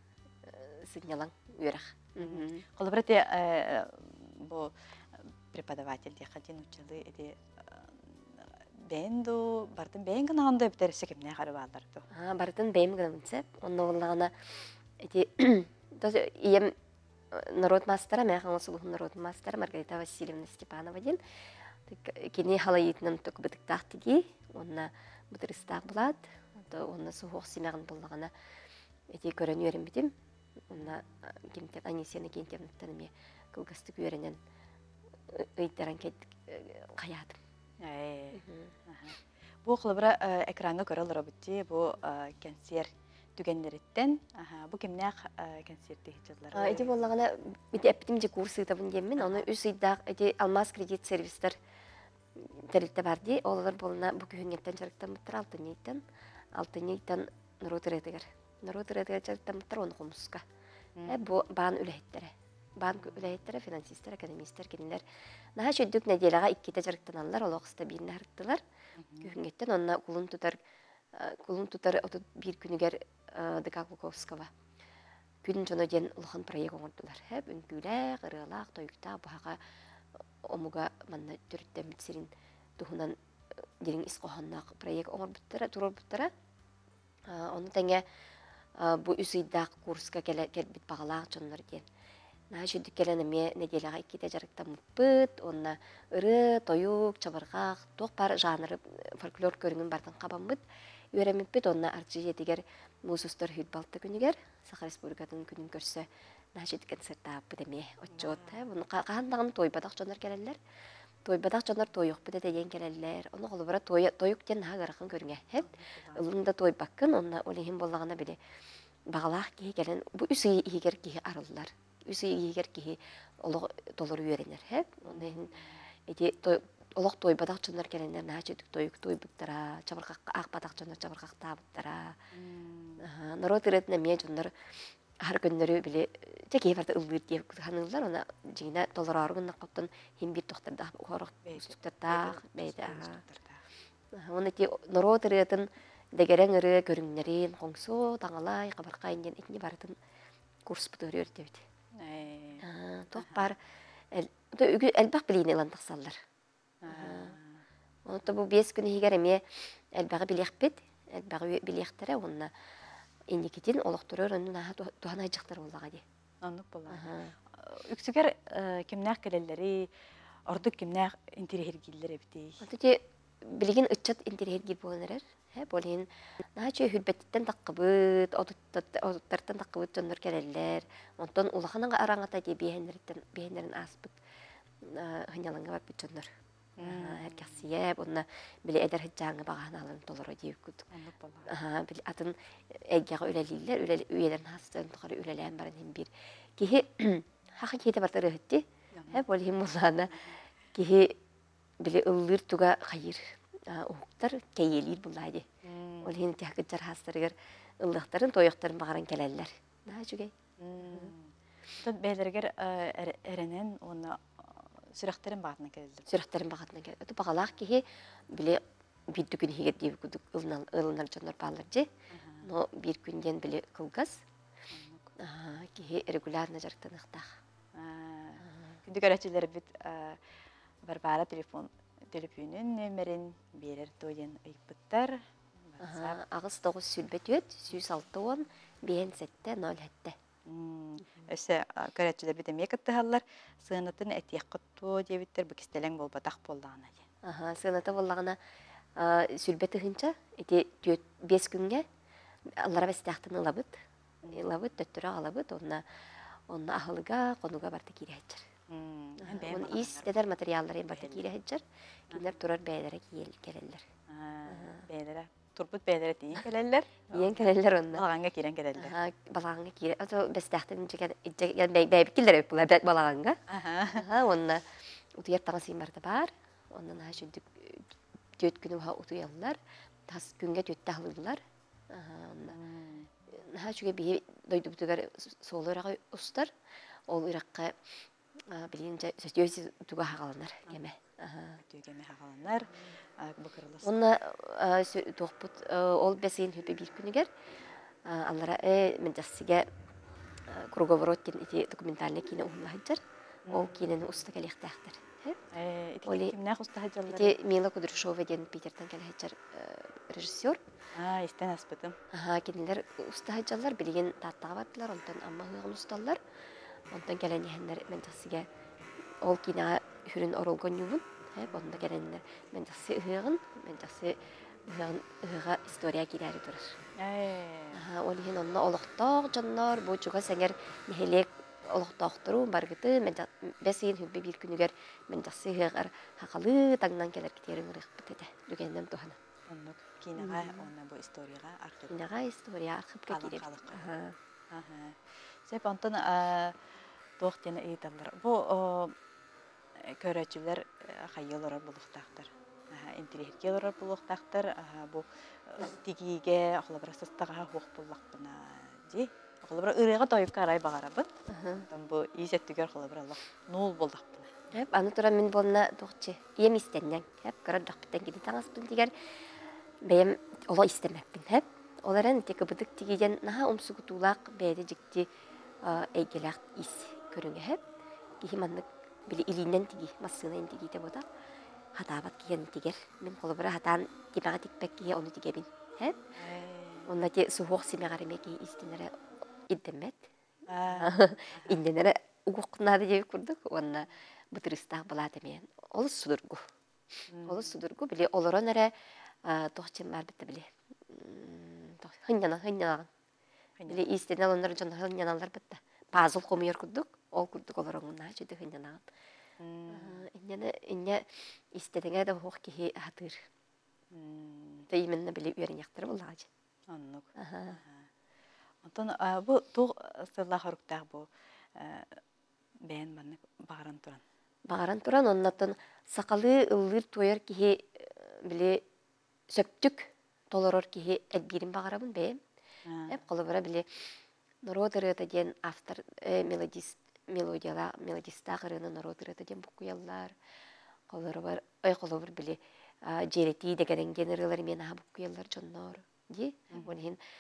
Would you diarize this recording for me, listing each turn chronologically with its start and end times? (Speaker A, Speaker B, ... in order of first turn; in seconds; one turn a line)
Speaker A: 0.5-2.7
Speaker B: 2.2-4.7
Speaker B: 5.5-12.1
Speaker A: 12.1-14.4
Speaker A: 15.0-16.8
Speaker A: 17.3-21.2
Speaker A: 21.9-28.3
Speaker A: 29.1-30.1
Speaker A: 30.7-34.4
Speaker A: 35.3-37.4
Speaker B: 37.8-47.0
Speaker A: 38.4-38.7
Speaker A: 46.5-51.6
Speaker B: 49.2-49.5
Speaker A: 52.4-56.0
Speaker A: 56.5-60.4
Speaker B: 61.0-61.3
Speaker A: 61.1-65.0
Speaker B: 62.9-63.3
Speaker A: 65.6-68.6
Speaker B: 69.0-69.3
Speaker A: 69.2-70.6
Speaker A: 71.1-74.5
Speaker A: 75.4-79.6
Speaker A: 80.5-83.2
Speaker A: 83.8-86.3
Speaker A: 87.3-88.0
Speaker A: 88.8-91.9
Speaker A: 92.5-100.6
Speaker A: 101.1-110.6
Speaker B: 108.1-108.7
Speaker A: 111.2-118.4
Speaker B: 115.6-116.3
Speaker A: 119.1-125.5
Speaker B: 125.0-125.8
Speaker A: 126.1-132.2
Speaker B: 132.3-133.0
Speaker A: 133.0-134.6
Speaker A: 135.2-143.2
Speaker B: 141.5-143.6
Speaker A: 144.1-150.0
Speaker A: 150.7-151.7
Speaker B: 152.0-153.5
Speaker A: 152.6-153.6
Speaker A: 154.1-156.2
Speaker B: 156.8-157.6
Speaker A: 156.9-157.3
Speaker A: 158.1-162.5
Speaker A: 163.3-166.0
Speaker B: 166.4-167.1
Speaker A: 166.9-167.3
Speaker B: 167.6-169.9
Speaker B: 170.5-172.6
Speaker A: 172.6-184.2
Speaker A: 184.9-186.3
Speaker B: 186.8-187.6
Speaker A: 186.8-190.9
Speaker B: 190.9-191.5
Speaker A: 191.5-200.2
Speaker B: 198.9-199.3
Speaker A: 200.7-201.2
Speaker A: 201.8-205.5
Speaker B: 205.6-206.2
Speaker A: 206.0-211.1
Speaker B: 210.6-211.3
Speaker B: 211.8-216.1
Speaker A: 216.1-221.9
Speaker B: 222.1-222.5
Speaker A: 222.4-224.2
Speaker B: 224.7-225.1
Speaker A: 225.2-227.3
Speaker B: 227.8-230.2
Speaker A: 228.4-228.8
Speaker B: 230.8-235.2
Speaker B: 235.7-236.2
Speaker A: 235.8-240.2
Speaker B: 240.5-247.1
Speaker A: 247.2-248.4
Speaker A: 249.0-251.9
Speaker A: 252.6-253.8
Speaker B: 254.2-254.5
Speaker A: 254.3-255.8
Speaker A: 256.5-258.5
Speaker B: 258.7-260.1
Speaker A: 259.2-263.9
Speaker B: 260.9-261.3
Speaker B: 264.1-267.4
Speaker A: 264.5-264.9
Speaker A: 267.1-268.1
Speaker B: 267.9-269.0
Speaker A: 268.8-273.4
Speaker B: 273.5-274.1
Speaker A: 273.9-274.6
Speaker A: 275.2-277.9
Speaker A: 278.4-282.6
Speaker B: 282.5-283.1
Speaker A: 283.4-286.5
Speaker A: 287.1-287.8
Speaker A: 288.5-291.6
Speaker B: 291.6-293.9
Speaker A: 293.8-297.3
Speaker A: 298.1-299.7
Speaker A: 300.5-305.4
Speaker B: 303.5-303.9
Speaker B: 305.5-307.4
Speaker A: 306.1-306.4
Speaker A: 307.1-310.6
Speaker B: 310.9-312.0
Speaker A: 312.1-316.2
Speaker A: 316.9-318.5
Speaker A: 319.2-326.8
Speaker B: 321.5-321.8
Speaker B: 327.0-327.8
Speaker A: 327.7-339.2
Speaker B: 339.5-342.1
Speaker A: 340.2-340.7
Speaker A: 341.9-344.2
Speaker B: 343.1-343.9
Speaker B: 344.5-346.6
Speaker B: 347.2-348.9
Speaker B: 349.8-361.1
Speaker A: 361.3-361.7
Speaker B: 361.7-364.3
Speaker A: 364.5-368.9
Speaker A: 369.9-375.1
Speaker A: 375.6-377.6
Speaker A: 378.2-381.1
Speaker A: 381.8-386.0
Speaker B: 386.2-386.9
Speaker A: 386.9-388.9
Speaker A: 389.5-390.1
Speaker B: 390.5-391.6
Speaker A: 390.7-396.4
Speaker B: 397.1-397.6
Speaker A: 397.3-402.9
Speaker B: 403.6-403.9
Speaker A: 403.7-408.9
Speaker B: 409.4-410.1
Speaker A: 409.7-413.2
Speaker B: 413.9-414.7
Speaker A: 414.7-416.3
Speaker B: 416.7-417.9
Speaker A: 417.2-417.6
Speaker B: 418.6-422.0
Speaker B: 422.7-424.0
Speaker A: 424.5-428.6
Speaker A: 429.3-432.2
Speaker B: 432.7-433.0
Speaker A: 432.9-433.7
Speaker A: 434.4-440.1
Speaker A: 440.9-447.0
Speaker B: 446.5-446.8